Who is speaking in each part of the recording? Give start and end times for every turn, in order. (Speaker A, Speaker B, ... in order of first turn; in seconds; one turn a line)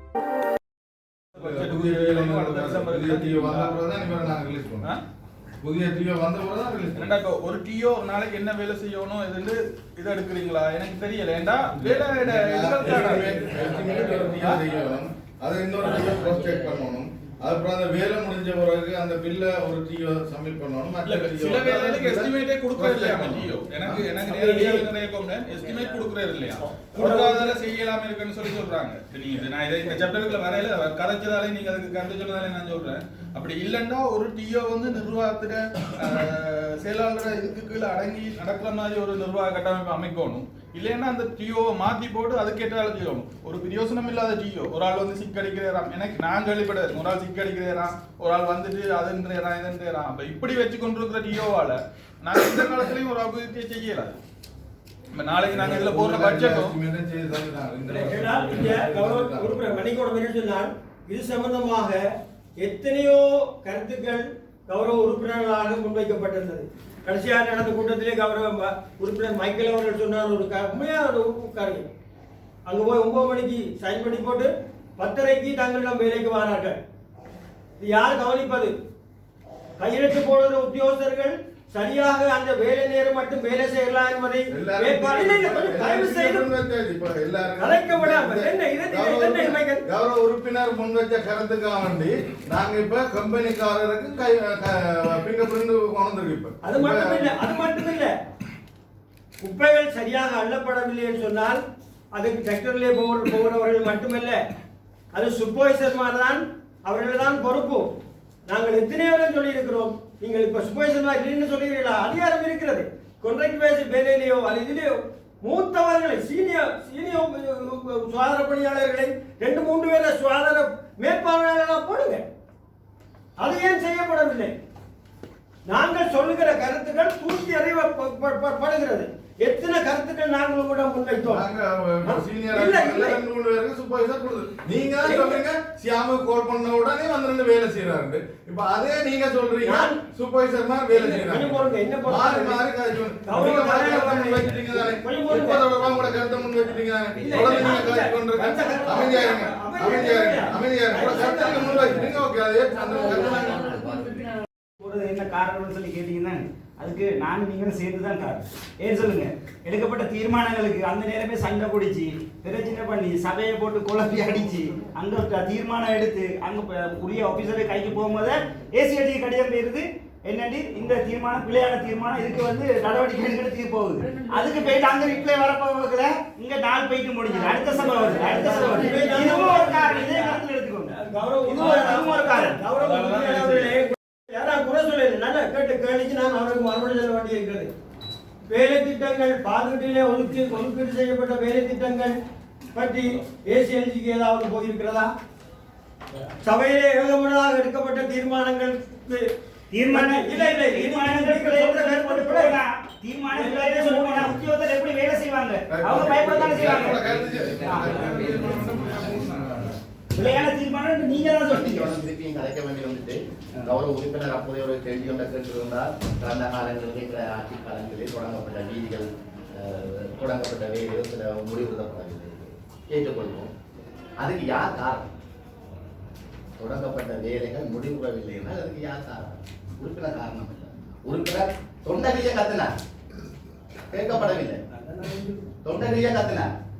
Speaker A: 1.4-3.7
Speaker B: 1.4-4.9
Speaker B: 5.6-7.1
Speaker A: 6.9-14.6
Speaker B: 11.8-24.0
Speaker A: 21.0-54.2
Speaker C: 24.1-24.9
Speaker C: 26.6-27.6
Speaker A: 55.1-56.8
Speaker B: 55.5-59.5
Speaker C: 57.8-62.0
Speaker C: 62.6-71.9
Speaker C: 72.7-76.8
Speaker C: 77.8-78.7
Speaker C: 79.8-86.5
Speaker B: 84.5-97.3
Speaker C: 87.6-89.8
Speaker C: 96.6-98.1
Speaker C: 99.4-101.6
Speaker C: 102.1-104.4
Speaker C: 105.1-107.9
Speaker C: 108.5-122.2
Speaker C: 123.4-124.5
Speaker C: 125.7-131.4
Speaker B: 131.2-154.2
Speaker C: 132.0-133.2
Speaker C: 135.0-135.4
Speaker C: 139.6-140.0
Speaker C: 140.9-142.6
Speaker C: 143.2-145.7
Speaker C: 147.2-152.1
Speaker D: 154.8-182.6
Speaker C: 178.2-187.7
Speaker A: 182.8-183.8
Speaker C: 188.5-192.2
Speaker C: 192.7-195.1
Speaker C: 196.4-199.3
Speaker D: 199.7-208.1
Speaker C: 199.8-202.6
Speaker C: 203.3-204.4
Speaker B: 205.7-209.8
Speaker D: 210.1-211.9
Speaker E: 211.3-223.5
Speaker E: 224.2-225.1
Speaker E: 226.6-232.7
Speaker E: 233.9-234.6
Speaker C: 234.1-235.5
Speaker E: 235.6-236.5